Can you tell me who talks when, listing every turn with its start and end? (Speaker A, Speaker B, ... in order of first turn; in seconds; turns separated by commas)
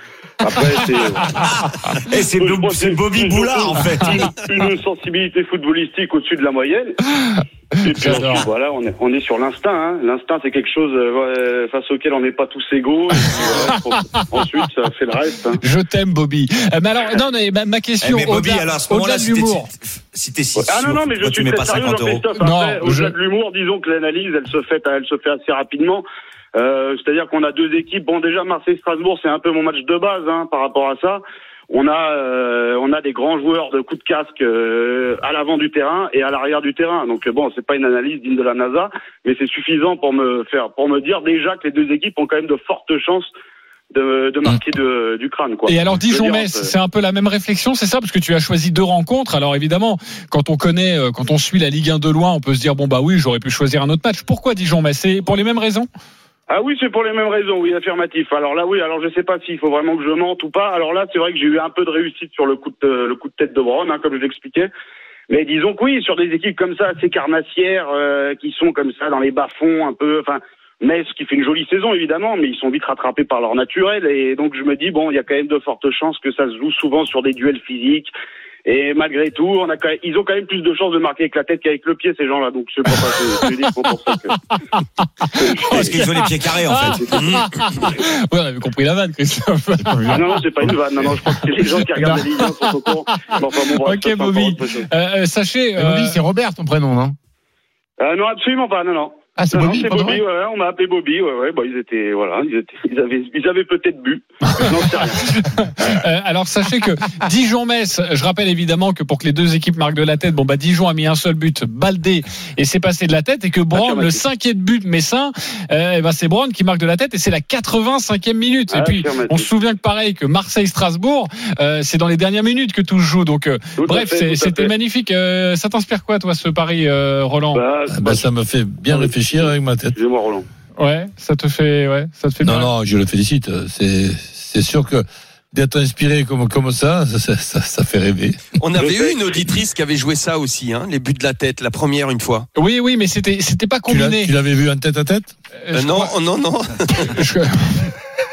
Speaker A: 0.4-1.4, Speaker B: 1.4-4.4, Speaker A: 2.1-7.0, Speaker A: 7.8-15.6, Speaker C: 7.8-8.5, Speaker C: 13.3-14.2, Speaker C: 15.6-19.7, Speaker B: 18.0-22.3, Speaker A: 20.6-43.3, Speaker C: 22.4-23.1, Speaker A: 43.9-46.7, Speaker C: 45.7-55.9, Speaker A: 56.5-64.7, Speaker A: 65.3-78.1, Speaker A: 78.7-84.3, Speaker C: 85.2-90.5, Speaker A: 85.4-86.0, Speaker B: 85.5-87.4, Speaker D: 89.9-90.2, Speaker A: 90.1-94.9, Speaker D: 91.9-92.2, Speaker C: 93.1-96.2, Speaker D: 95.8-97.2, Speaker A: 98.0-105.3, Speaker D: 99.4-100.2, Speaker C: 104.6-127.6, Speaker A: 113.7-114.2, Speaker A: 118.7-119.5, Speaker A: 123.8-124.7, Speaker A: 127.5-128.3, Speaker E: 127.9-130.0, Speaker A: 128.9-130.5, Speaker C: 130.8-132.7, Speaker E: 132.4-138.5, Speaker F: 138.6-142.5, Speaker A: 138.8-139.2, Speaker C: 142.6-144.3, Speaker E: 143.9-145.4, Speaker C: 145.7-146.1, Speaker F: 145.7-147.1, Speaker C: 146.9-147.9